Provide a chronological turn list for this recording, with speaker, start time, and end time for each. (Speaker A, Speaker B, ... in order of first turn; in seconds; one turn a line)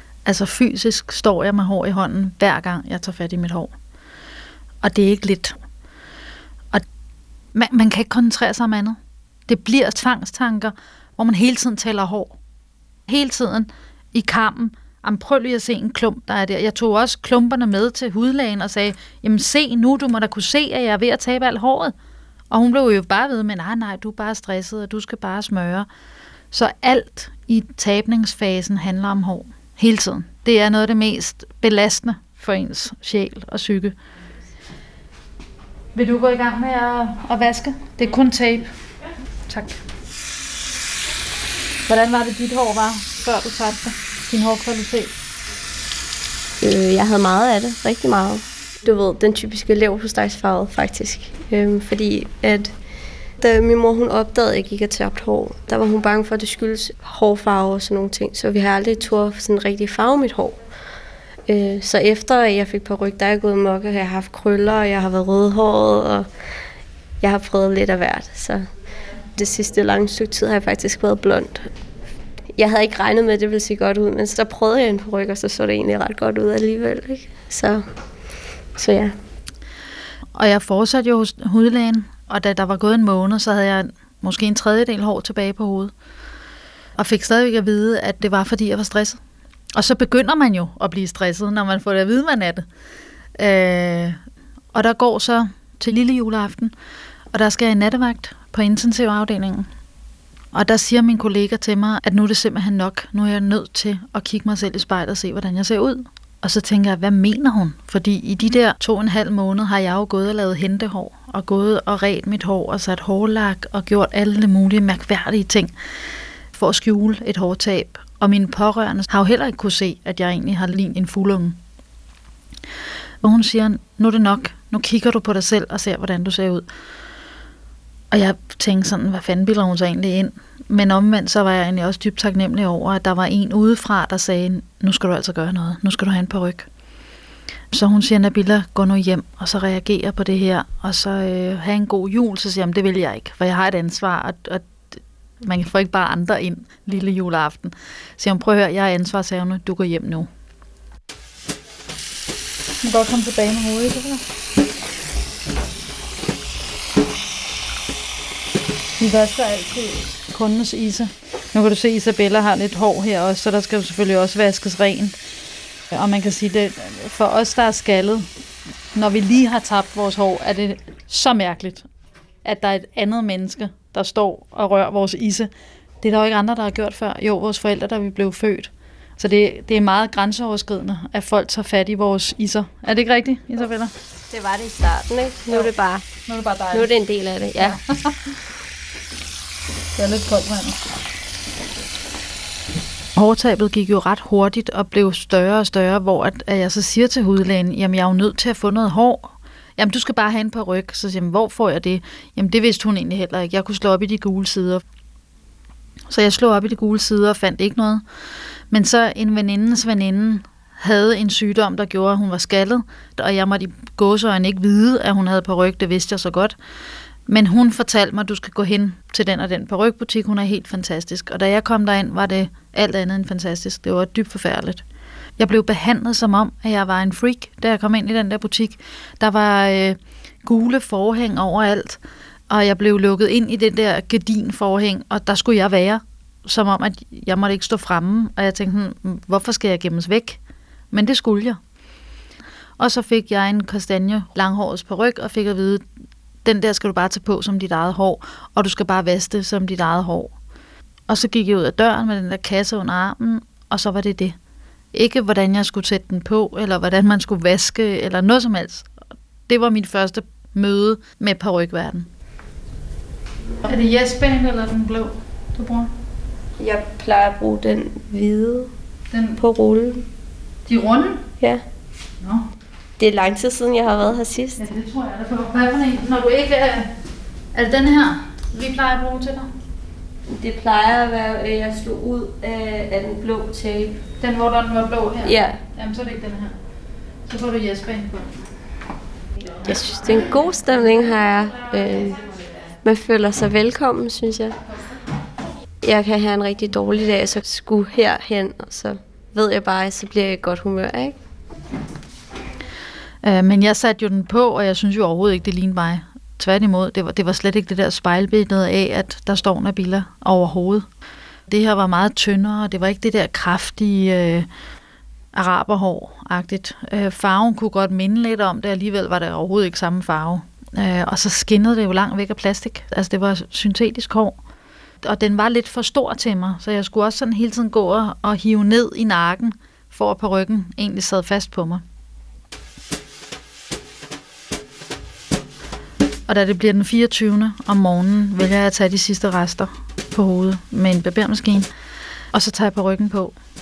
Speaker A: 0.2-3.7
Speaker A: 4.8-5.6
Speaker A: 7.5-9.0
Speaker A: 9.5-12.4
Speaker A: 13.1-21.9
Speaker A: 22.5-25.9
Speaker A: 26.5-34.0
Speaker A: 35.9-38.7
Speaker A: 39.5-39.8
Speaker A: 41.9-45.1
Speaker B: 46.6-52.8
Speaker B: 53.4-60.6
Speaker B: 61.5-66.3
Speaker B: 67.2-68.7
Speaker B: 69.3-71.7
Speaker B: 72.5-77.9
Speaker B: 78.8-79.2
Speaker A: 80.3-85.9
Speaker A: 87.0-89.2
Speaker A: 89.8-92.7
Speaker A: 93.4-94.2
Speaker A: 94.7-96.7
Speaker A: 97.3-99.7
Speaker A: 100.5-115.7
Speaker A: 116.5-121.6
Speaker A: 123.2-126.7
Speaker A: 128.1-136.7
Speaker A: 137.7-150.3
Speaker A: 152.8-154.2
Speaker A: 159.0-165.2
Speaker A: 165.9-168.3
Speaker A: 168.9-171.8
Speaker A: 172.4-175.5
Speaker A: 176.0-183.9
Speaker B: 184.3-186.1
Speaker A: 186.3-186.9
Speaker B: 186.7-187.8
Speaker A: 187.6-188.3
Speaker A: 189.9-190.8
Speaker A: 193.2-204.8
Speaker A: 206.1-208.0
Speaker A: 208.7-216.6
Speaker A: 217.3-224.8
Speaker A: 225.4-240.4
Speaker A: 240.9-241.6
Speaker A: 242.8-245.8
Speaker A: 246.4-250.3
Speaker A: 251.1-254.3
Speaker A: 254.9-258.9
Speaker A: 259.5-262.1
Speaker A: 263.6-265.9
Speaker B: 266.6-268.7
Speaker A: 269.1-269.4
Speaker B: 269.4-270.1
Speaker A: 270.7-271.2
Speaker B: 273.0-274.6
Speaker A: 274.6-276.9
Speaker A: 277.5-279.5
Speaker B: 280.3-284.0
Speaker A: 284.2-286.6
Speaker B: 285.2-285.6
Speaker A: 287.3-288.4
Speaker B: 289.6-292.2
Speaker B: 292.8-294.6
Speaker B: 295.8-301.2
Speaker A: 303.2-310.9
Speaker A: 311.5-314.5
Speaker A: 315.3-324.4
Speaker A: 325.0-331.8
Speaker A: 336.3-341.7
Speaker A: 342.3-343.3